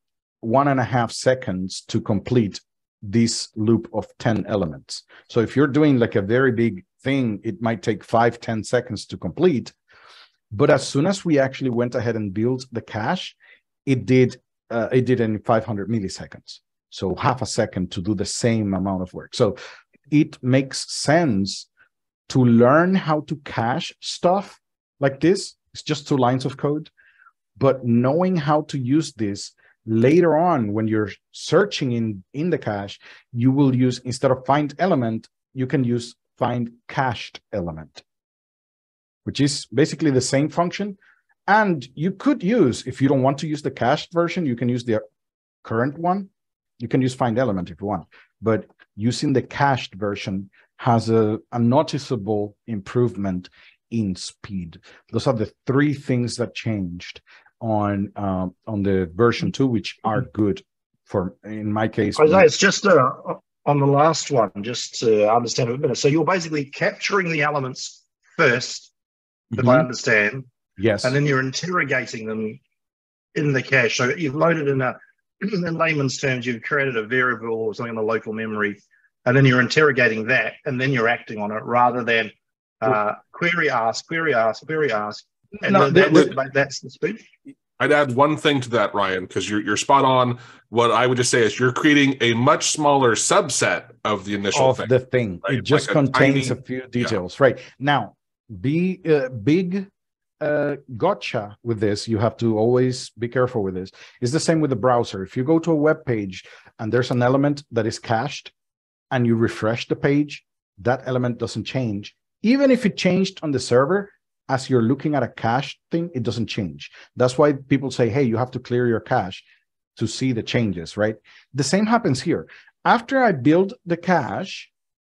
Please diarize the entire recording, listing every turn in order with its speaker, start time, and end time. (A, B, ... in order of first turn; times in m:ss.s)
0:00.4-0:09.7 A
0:10.5-0:19.6 A
0:20.1-0:21.7 A
0:22.3-0:26.9 A
0:27.6-0:38.0 A
0:39.2-0:41.0 A
0:41.5-0:45.0 A
0:45.6-1:02.5 A
1:02.2-1:08.9 B
1:09.5-1:09.9 A
1:09.5-1:10.5 B
1:10.8-1:11.2 A
1:11.0-1:12.6 B
1:13.3-1:27.2 B
1:25.6-1:26.3 A
1:27.8-1:34.9 C
1:34.5-1:39.9 A
1:35.4-1:37.2 C
1:40.4-1:48.5 A
1:49.1-1:59.4 A
2:00.0-2:04.7 A